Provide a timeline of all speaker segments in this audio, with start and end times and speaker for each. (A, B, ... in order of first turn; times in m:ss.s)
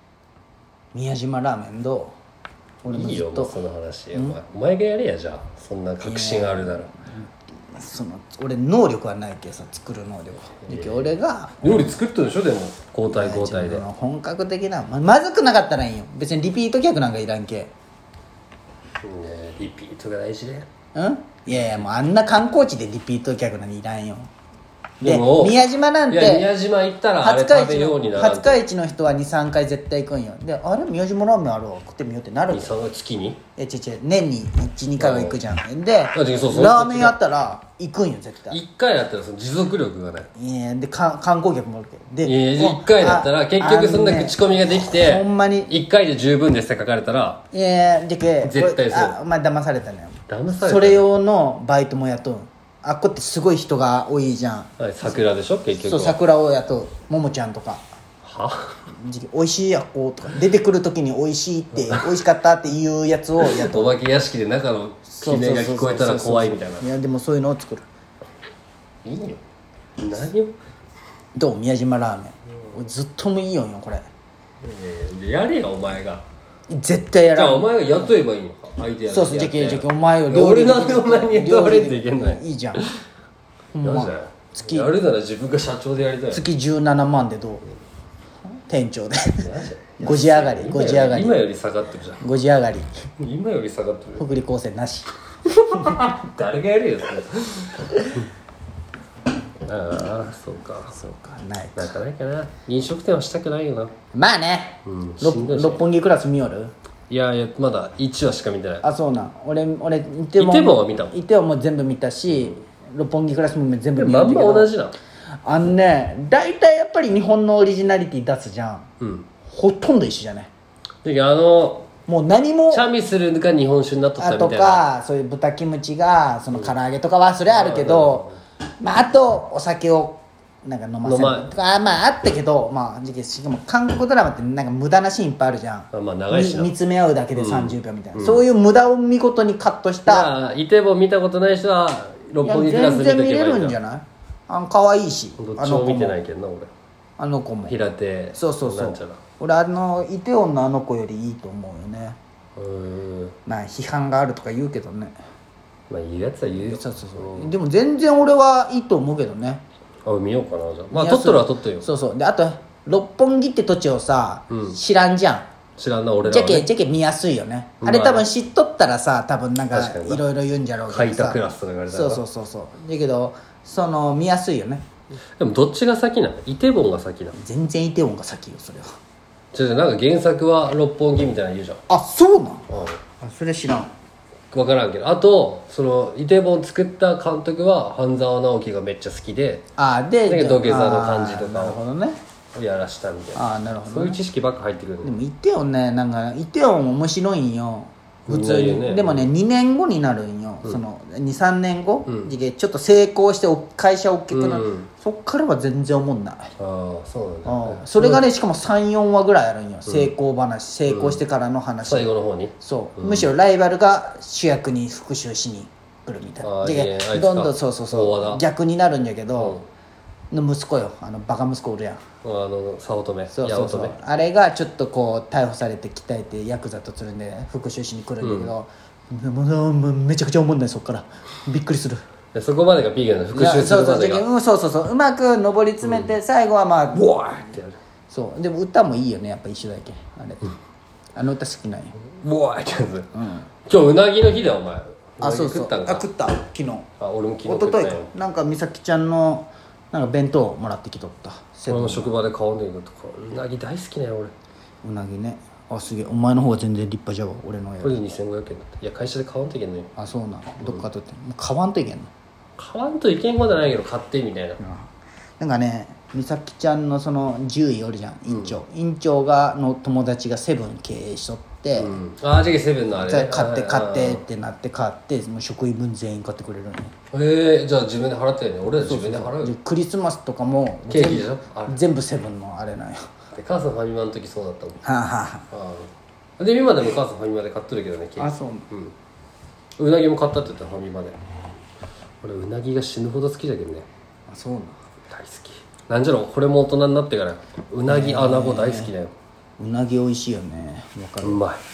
0:00.9-0:02.1 A
0:02.8-0:03.6 A
0:02.8-0:06.9 B
0:04.1-0:04.4 A
0:06.0-0:11.9 A
0:10.6-0:13.8 B
0:13.0-0:17.7 A
0:19.0-0:20.7 B
0:20.9-0:24.3 A
0:25.0-0:26.5 A
0:25.0-0:28.6 B
0:27.2-0:32.8 A
0:32.5-0:33.4 B
0:33.6-0:38.6 A
0:35.0-0:35.4 B
0:36.1-0:37.2 B
0:38.5-0:40.3 B
0:40.3-0:45.7 A
0:42.2-0:47.4 B
0:47.5-0:55.2 A
0:48.4-0:49.2 B
0:50.3-0:51.1 B
0:54.8-0:56.2 B
0:55.8-0:57.8 A
0:58.2-0:58.8 B
0:58.9-1:04.0 A
1:01.7-1:02.2 B
1:03.4-1:06.9 B
1:05.1-1:07.8 A
1:09.0-1:09.4 B
1:10.0-1:10.5 B
1:11.3-1:14.0 A
1:14.6-1:16.2 B
1:16.7-1:17.9 A
1:17.3-1:22.8 B
1:19.1-1:22.9 A
1:23.7-1:24.9 A
1:23.8-1:26.4 B
1:26.3-1:27.7 A
1:28.6-1:29.4 A
1:29.4-1:32.2 B
1:30.0-1:31.4 A
1:32.2-1:33.1 A
1:33.2-1:34.3 B
1:34.2-1:35.1 A
1:35.6-1:38.3 B
1:35.7-1:36.1 A
1:39.6-1:41.0 B
1:40.9-1:41.9 A
1:41.8-1:43.9 B
1:44.1-1:46.7 A
1:44.8-1:45.8 B
1:47.1-1:48.8 B
1:48.8-1:54.7 A
1:50.4-1:51.2 B
1:54.0-1:55.0 B
1:55.4-1:58.9 A
1:59.0-1:59.3 B
1:59.4-2:00.5 A
2:01.0-2:01.9 B
2:02.1-2:02.8 A
2:02.7-2:04.8 B
2:04.2-2:20.3 A
2:07.5-2:08.4 B
2:11.0-2:11.5 B
2:15.9-2:16.7 B
2:17.3-2:18.4 B
2:20.0-2:23.8 B
2:22.4-2:26.2 A
2:25.4-2:26.7 B
2:27.2-2:27.8 A
2:27.7-2:29.2 B
2:28.3-2:32.2 A
2:32.6-2:33.4 B
2:33.4-2:35.1 A
2:35.9-2:37.5 B
2:36.6-2:39.6 A
2:40.0-2:41.9 B
2:40.9-2:45.5 A
2:44.5-2:44.8 B
2:45.8-2:46.7 B
2:46.2-2:54.9 A
2:47.8-2:48.3 B
2:49.7-2:50.2 B
2:50.9-2:52.2 B
2:55.4-2:57.4 B
2:57.4-2:58.9 A
2:59.5-3:01.8 B
3:01.9-3:03.9 A
3:02.7-3:03.0 B
3:04.5-3:09.6 B
3:09.8-3:12.2 A
3:10.2-3:11.8 B
3:12.5-3:15.2 B
3:13.3-3:14.2 A
3:15.0-3:26.5 A
3:18.3-3:19.3 B
3:22.1-3:22.3 B
3:24.3-3:24.9 B
3:26.6-3:28.2 B
3:27.4-3:39.6 A
3:29.9-3:30.1 B
3:30.9-3:31.2 B
3:31.8-3:33.3 B
3:36.4-3:38.4 B
3:39.4-3:39.6 B
3:40.3-3:42.0 A
3:42.2-3:44.0 B
3:43.3-3:52.0 A
3:48.2-3:48.5 B
3:52.3-3:54.3 B
3:53.3-3:57.4 A
3:55.8-3:56.1 B
3:56.9-3:57.8 B
3:58.1-4:00.5 A
4:01.1-4:02.0 A
4:02.0-4:03.1 B
4:03.1-4:03.5 A
4:03.6-4:06.0 B
4:05.2-4:06.9 A
4:07.0-4:08.1 B
4:07.4-4:12.1 A
4:11.7-4:14.3 B
4:14.8-4:18.0 A
4:17.8-4:19.9 B
4:20.0-4:22.1 A
4:22.6-4:24.6 B
4:24.6-4:32.0 A
4:28.2-4:28.6 B
4:31.8-4:34.2 B
4:33.0-4:36.9 A
4:37.1-4:39.5 B
4:38.7-4:43.2 A
4:40.9-4:41.8 B
4:43.3-4:44.8 B
4:44.8-4:45.5 A
4:45.5-4:48.9 B
4:48.2-4:48.7 A
4:49.8-4:51.2 B
4:52.2-4:53.9 B
4:54.3-4:54.8 A
4:55.1-4:59.1 B
4:57.9-4:58.9 A
4:59.6-5:01.4 A
5:01.2-5:01.6 B